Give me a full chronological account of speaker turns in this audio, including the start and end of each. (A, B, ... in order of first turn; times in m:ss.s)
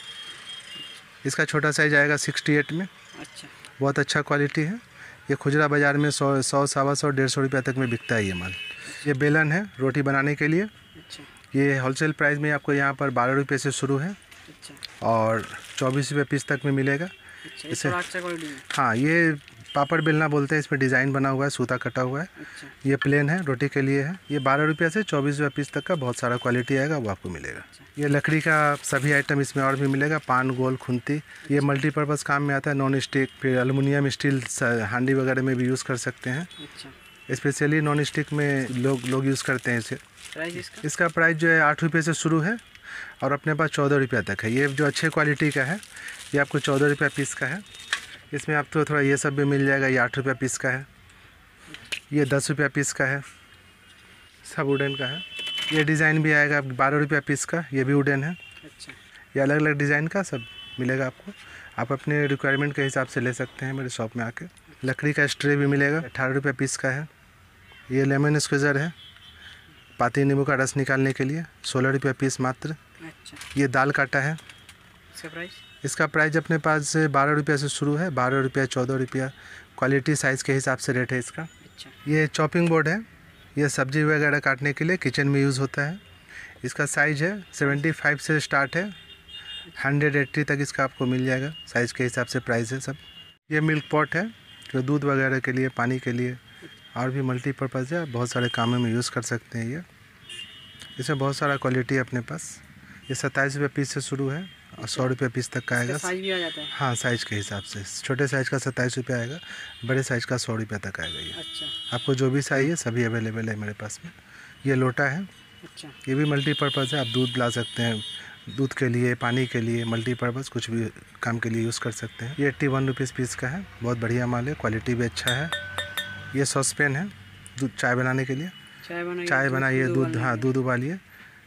0:01.2-0:02.9 A
0:03.1-0:03.5 B
0:03.8-0:10.7 A
0:08.8-0:09.1 B
0:10.9-0:11.3 B
0:11.5-0:14.2 A
0:14.5-0:14.8 B
0:15.0-0:17.1 A
0:17.4-0:18.7 B
0:17.7-0:18.0 A
0:18.7-0:22.3 A
0:22.4-0:22.8 B
0:22.8-0:36.5 A
0:31.4-0:31.8 B
0:36.6-0:37.0 B
0:37.3-0:40.0 A
0:40.3-0:40.9 B
0:40.6-0:42.6 A
0:43.2-0:47.6 A
0:48.3-0:50.9 A
0:52.1-0:53.2 A
0:54.4-0:58.4 A
0:58.6-0:59.0 B
0:59.3-1:07.1 A
1:07.9-1:08.9 A
1:10.0-1:12.8 A
1:13.0-1:13.4 B
1:13.5-1:14.4 A
1:15.1-1:15.6 B
1:15.8-1:21.5 A
1:21.6-1:22.0 B
1:22.0-1:26.0 A
1:26.6-1:28.9 A
1:29.8-1:36.4 A
1:36.9-1:39.8 A
1:41.0-1:46.1 A
1:44.8-1:45.2 B
1:45.7-1:46.7 B
1:46.7-1:51.4 A
1:51.3-1:51.8 B
1:51.9-1:55.3 A
1:55.6-1:56.0 B
1:56.0-2:05.6 A
2:06.3-2:08.5 A
2:08.8-2:10.5 B
2:09.2-2:11.0 A